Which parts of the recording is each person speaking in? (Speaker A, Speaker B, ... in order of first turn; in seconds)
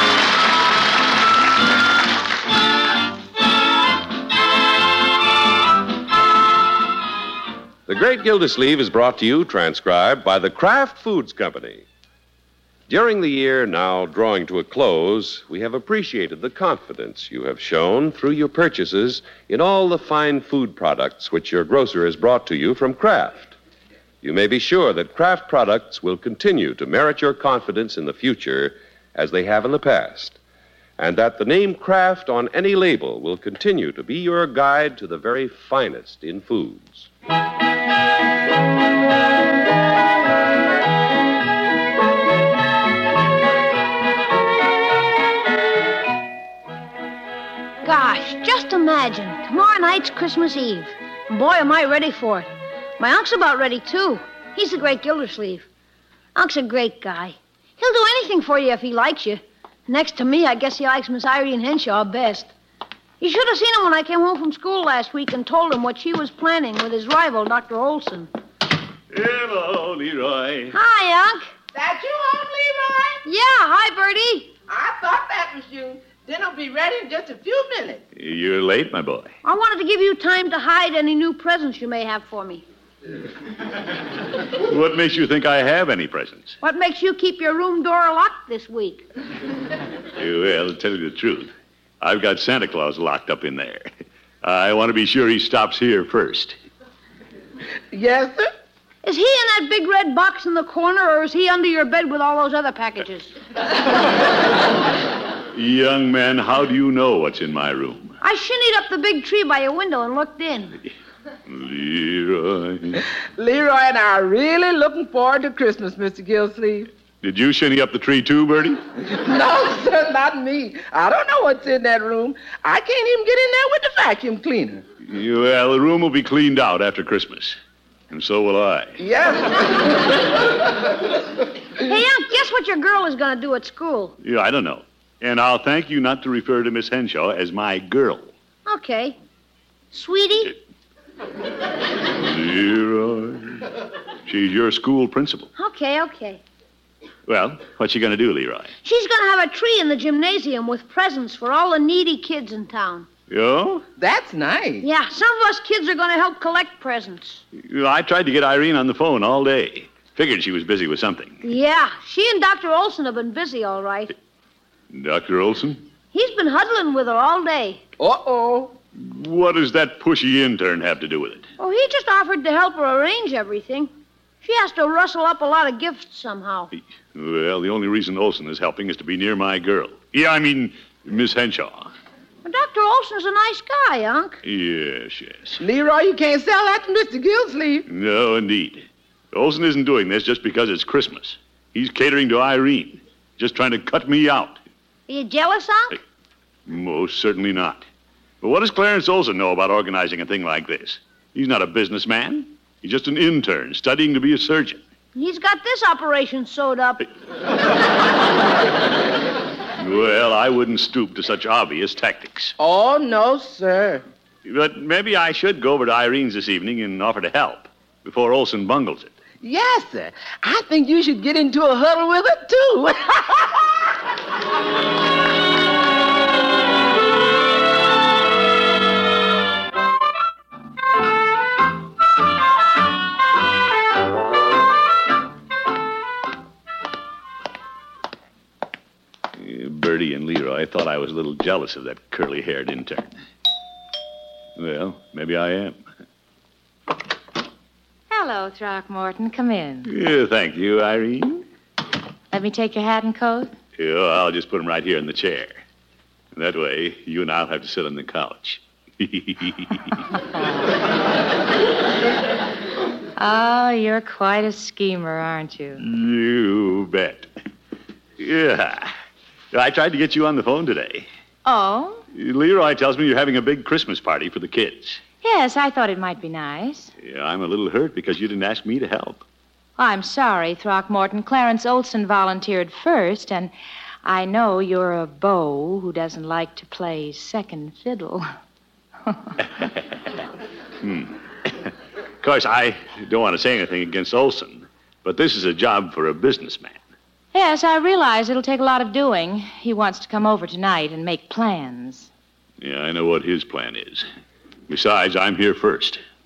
Speaker A: 7.9-11.9, 12.9-23.6, 24.2-30.4, 31.0-37.1
Speaker B: 47.8-55.7, 56.4-62.5, 63.2-68.3, 70.7-71.5, 73.2-74.5, 79.4-82.7, 86.6-89.1, 99.0-103.3, 108.2-110.8, 131.8-134.2, 138.7-139.2, 139.9-140.6, 145.6-146.4, 148.8-153.1, 154.8-157.4, 161.4-164.1, 166.1-167.8, 171.6-173.9, 174.4-176.7, 182.4-184.4, 195.1-196.0, 205.2-207.1
Speaker C: 69.1-70.8, 78.2-79.3, 84.6-86.6, 90.2-93.9, 94.4-96.5, 105.5-108.2, 111.5-113.1, 117.2-118.8, 125.1-127.6, 128.1-129.0, 134.2-138.3, 142.2-143.7, 144.3-145.5, 147.3-148.7, 153.3-153.8, 157.5-161.4, 164.9-165.8, 169.0-171.5, 176.7-181.9, 184.4-185.6, 187.9-194.6, 196.7-197.8, 198.4-204.8, 209.8-212.6, 214.4-219.1, 239.4-243.2, 244.6-245.8, 249.8-251.4, 253.8-255.6, 256.3-260.0, 265.8-267.3, 268.2-268.9, 269.5-271.1, 272.1-275.0, 277.0-279.2, 290.8-296.8, 302.6-304.1, 304.7-306.0
Speaker D: 71.7-73.2, 74.7-78.0, 97.9-98.5, 113.4-116.9, 119.1-124.8, 129.0-130.2, 154.0-154.9, 168.0-168.7, 185.6-187.9, 212.6-214.0, 219.4-223.5
Speaker E: 248.1-249.9, 252.3-253.5, 263.2-265.8, 271.4-272.0, 275.2-276.9, 279.8-283.5, 284.0-288.3, 297.3-302.1